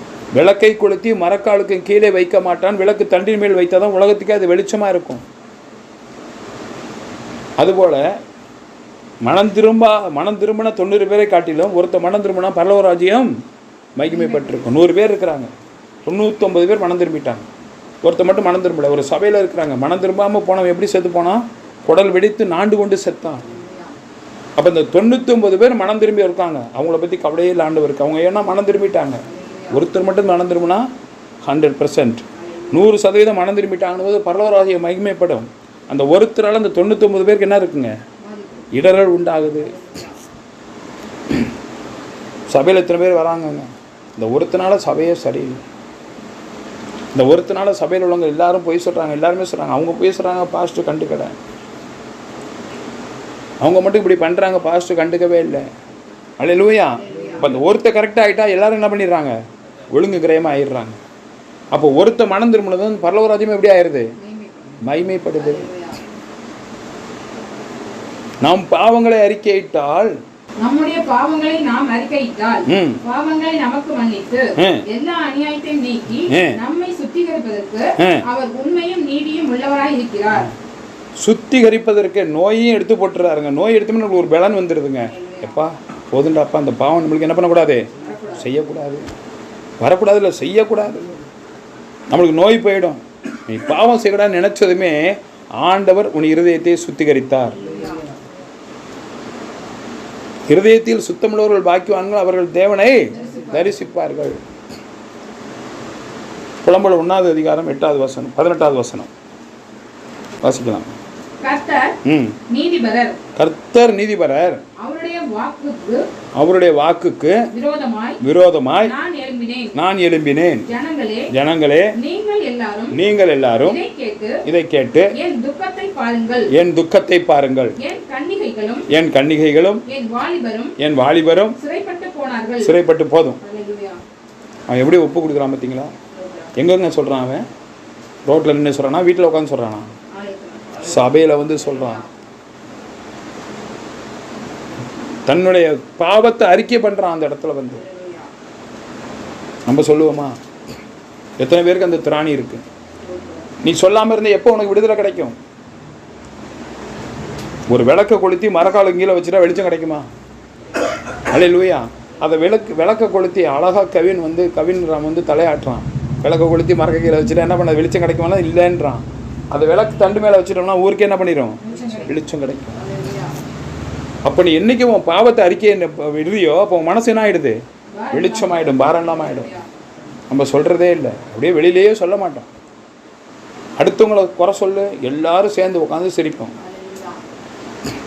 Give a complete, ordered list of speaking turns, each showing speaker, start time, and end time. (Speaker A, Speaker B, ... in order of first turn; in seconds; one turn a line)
Speaker A: 0.3-5.2
Speaker A: 7.6-8.1
Speaker A: 9.2-13.3
Speaker A: 14.0-15.5
Speaker B: 14.1-14.7
Speaker A: 16.1-17.5
Speaker A: 18.0-23.5
Speaker B: 23.4-24.0
Speaker A: 24.6-30.9
Speaker B: 29.3-29.8
Speaker A: 31.4-37.9
Speaker B: 32.4-32.8
Speaker B: 38.2-38.7
Speaker A: 38.7-39.8
Speaker B: 39.6-40.2
Speaker A: 42.5-45.6
Speaker A: 47.1-51.4
Speaker A: 53.6-55.7
Speaker A: 56.4-59.4
Speaker B: 57.0-57.5
Speaker A: 59.9-61.0
Speaker A: 61.7-64.1
Speaker B: 64.2-64.8
Speaker A: 64.8-65.7
Speaker B: 65.4-66.0
Speaker A: 68.4-70.1
Speaker B: 70.6-80.5
Speaker A: 72.7-73.0
Speaker A: 74.6-74.9
Speaker A: 76.3-76.6
Speaker A: 78.0-78.2
Speaker A: 81.2-89.0
Speaker B: 85.1-85.6
Speaker B: 87.9-88.5
Speaker A: 89.8-91.1
Speaker A: 92.1-97.6
Speaker B: 97.5-98.1
Speaker A: 100.5-104.4
Speaker B: 103.1-103.8
Speaker A: 106.6-109.1
Speaker A: 110.4-110.9
Speaker B: 111.4-112.0
Speaker A: 112.0-112.4
Speaker B: 112.5-113.2
Speaker A: 113.3-114.6
Speaker B: 114.8-116.1
Speaker A: 116.4-117.5
Speaker B: 117.5-118.2
Speaker A: 118.2-118.9
Speaker B: 118.8-119.8
Speaker A: 119.7-120.7
Speaker B: 120.7-121.3
Speaker A: 121.3-122.0
Speaker B: 122.0-123.0
Speaker A: 122.9-123.8
Speaker B: 123.6-124.4
Speaker A: 124.5-125.2
Speaker B: 125.1-126.5
Speaker A: 126.5-127.8
Speaker B: 127.8-128.9
Speaker A: 128.9-129.8
Speaker B: 129.9-130.8
Speaker A: 130.8-131.6
Speaker B: 131.6-132.8
Speaker A: 132.6-133.4
Speaker B: 133.4-134.0
Speaker A: 134.7-135.9
Speaker B: 136.1-136.6
Speaker A: 136.6-137.4
Speaker A: 138.3-139.9
Speaker B: 140.1-142.1
Speaker A: 140.8-142.0
Speaker A: 145.3-147.8
Speaker B: 147.8-148.3
Speaker A: 149.7-150.4
Speaker A: 151.4-152.6
Speaker B: 153.0-153.5
Speaker A: 153.6-155.4
Speaker A: 157.7-160.1
Speaker A: 161.3-172.8
Speaker B: 171.6-172.2
Speaker B: 172.8-173.4
Speaker A: 174.2-177.6
Speaker B: 177.9-179.8
Speaker A: 178.1-179.5
Speaker A: 180.3-182.5
Speaker A: 183.8-186.6
Speaker B: 186.6-187.2